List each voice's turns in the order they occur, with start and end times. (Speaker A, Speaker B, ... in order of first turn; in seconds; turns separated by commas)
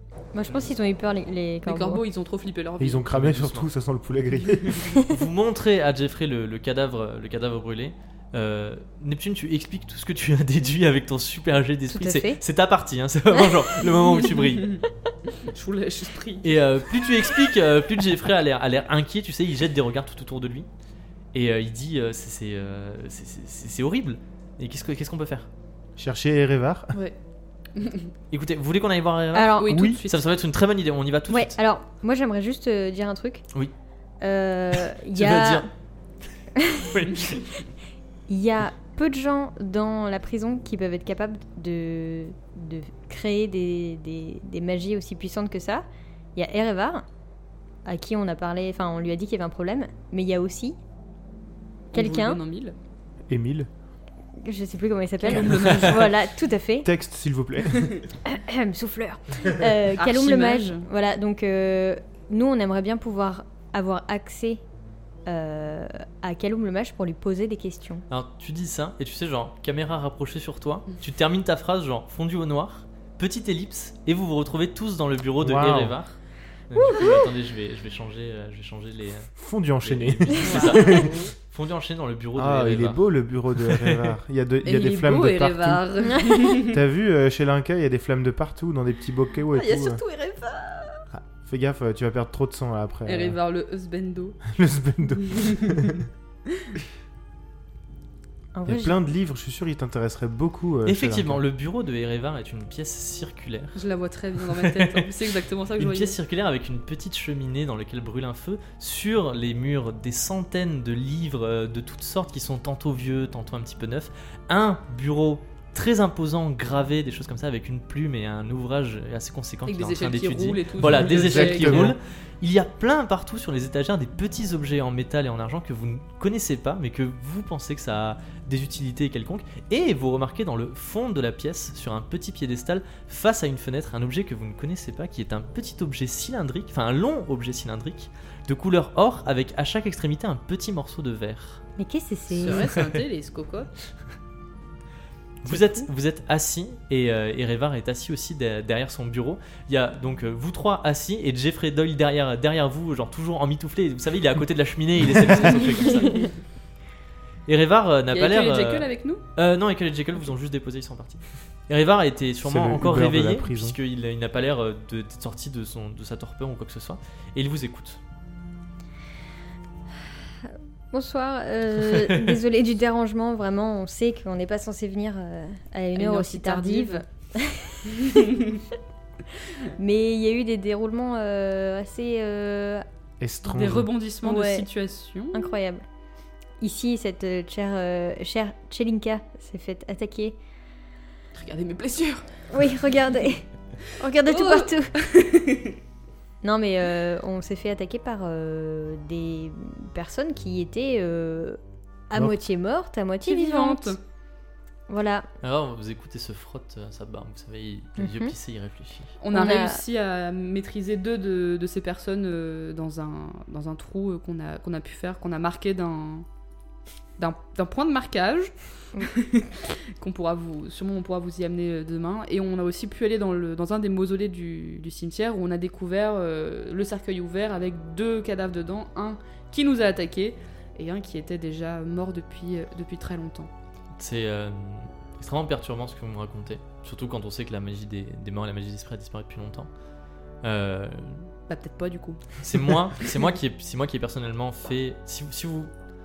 Speaker A: 0.3-2.0, Speaker B: 1.6-3.0, Speaker C: 2.8-5.0, Speaker D: 3.1-3.7, Speaker D: 5.1-14.7, Speaker A: 11.9-12.4, Speaker B: 14.2-16.6, Speaker D: 16.4-20.7, Speaker D: 21.3-25.5, Speaker C: 26.0-26.9, Speaker B: 27.7-28.1, Speaker D: 28.3-31.5, Speaker A: 29.3-29.9, Speaker B: 29.6-30.2, Speaker C: 29.7-30.0, Speaker A: 31.3-33.4, Speaker A: 34.2-35.7, Speaker D: 34.8-35.7, Speaker A: 36.6-37.0, Speaker D: 36.9-37.4, Speaker A: 38.3-47.0, Speaker A: 47.9-50.8, Speaker A: 51.9-52.4, Speaker B: 51.9-52.8, Speaker C: 53.3-53.7, Speaker A: 54.4-56.9, Speaker B: 55.2-56.1, Speaker C: 56.8-58.0, Speaker B: 57.7-58.0, Speaker A: 58.2-64.6, Speaker B: 59.9-60.9, Speaker A: 65.2-68.0, Speaker D: 68.1-76.2, Speaker C: 75.4-75.9, Speaker D: 76.7-79.3, Speaker A: 76.8-77.3, Speaker C: 79.4-81.2, Speaker D: 79.8-84.1, Speaker B: 80.4-81.2, Speaker C: 82.3-85.8, Speaker B: 84.6-86.8, Speaker C: 86.5-90.0, Speaker B: 89.5-91.0, Speaker C: 91.1-93.4, Speaker B: 93.0-94.4, Speaker C: 94.5-96.0, Speaker B: 95.2-96.0, Speaker A: 98.5-99.0, Speaker C: 98.7-101.4, Speaker D: 100.8-103.8, Speaker B: 103.8-106.2, Speaker D: 104.4-105.0, Speaker D: 105.8-141.6, Speaker B: 119.7-121.9, Speaker C: 120.8-122.0, Speaker A: 141.8-142.7, Speaker B: 142.3-143.7, Speaker D: 142.4-142.9, Speaker D: 145.4-156.3, Speaker B: 155.4-156.3, Speaker D: 157.5-168.0, Speaker B: 158.1-159.2, Speaker C: 162.4-163.8, Speaker A: 170.4-178.4, Speaker B: 175.9-177.0, Speaker B: 178.0-178.6, Speaker A: 179.8-182.8, Speaker C: 183.2-183.9, Speaker B: 183.5-185.4, Speaker A: 184.2-184.7, Speaker A: 185.3-185.8, Speaker A: 186.6-190.4, Speaker B: 191.3-192.2, Speaker A: 192.5-194.9, Speaker B: 194.2-195.8, Speaker A: 196.4-204.0, Speaker B: 203.2-204.0, Speaker A: 204.9-205.3, Speaker D: 205.4-209.1, Speaker A: 208.0-208.3, Speaker B: 209.2-216.2, Speaker A: 209.3-209.8, Speaker B: 217.2-233.5, Speaker D: 234.0-239.7, Speaker D: 240.4-241.3, Speaker B: 241.5-242.4, Speaker D: 242.4-245.7